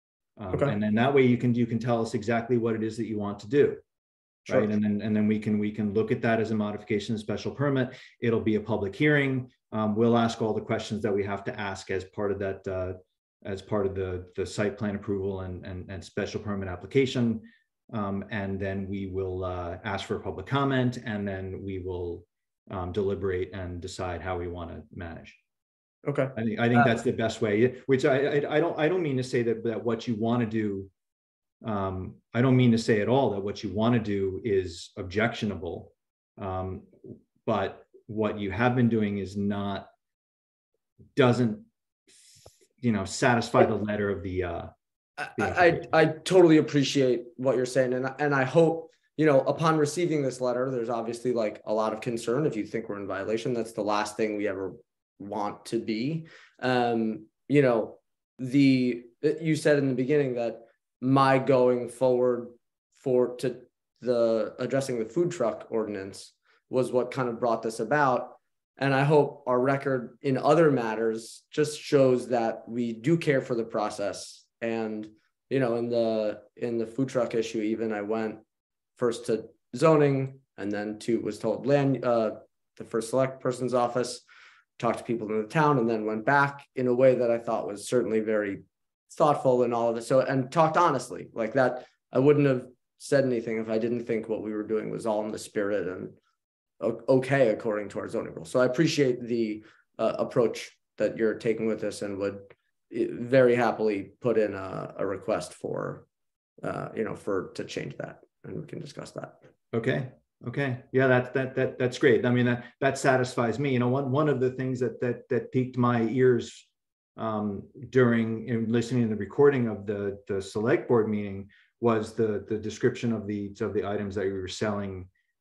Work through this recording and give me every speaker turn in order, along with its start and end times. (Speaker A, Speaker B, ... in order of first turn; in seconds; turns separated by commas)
Speaker A: 0.4-3.8, Speaker B: 0.5-0.8, Speaker A: 4.5-25.4, Speaker B: 26.1-27.0, Speaker A: 26.4-30.9, Speaker A: 31.6-39.9, Speaker A: 41.2-41.7, Speaker A: 42.8-44.7, Speaker B: 45.2-78.4, Speaker A: 45.4-45.9, Speaker B: 79.0-84.2, Speaker B: 84.8-96.2, Speaker B: 96.8-106.0, Speaker B: 106.6-109.4, Speaker A: 109.7-125.1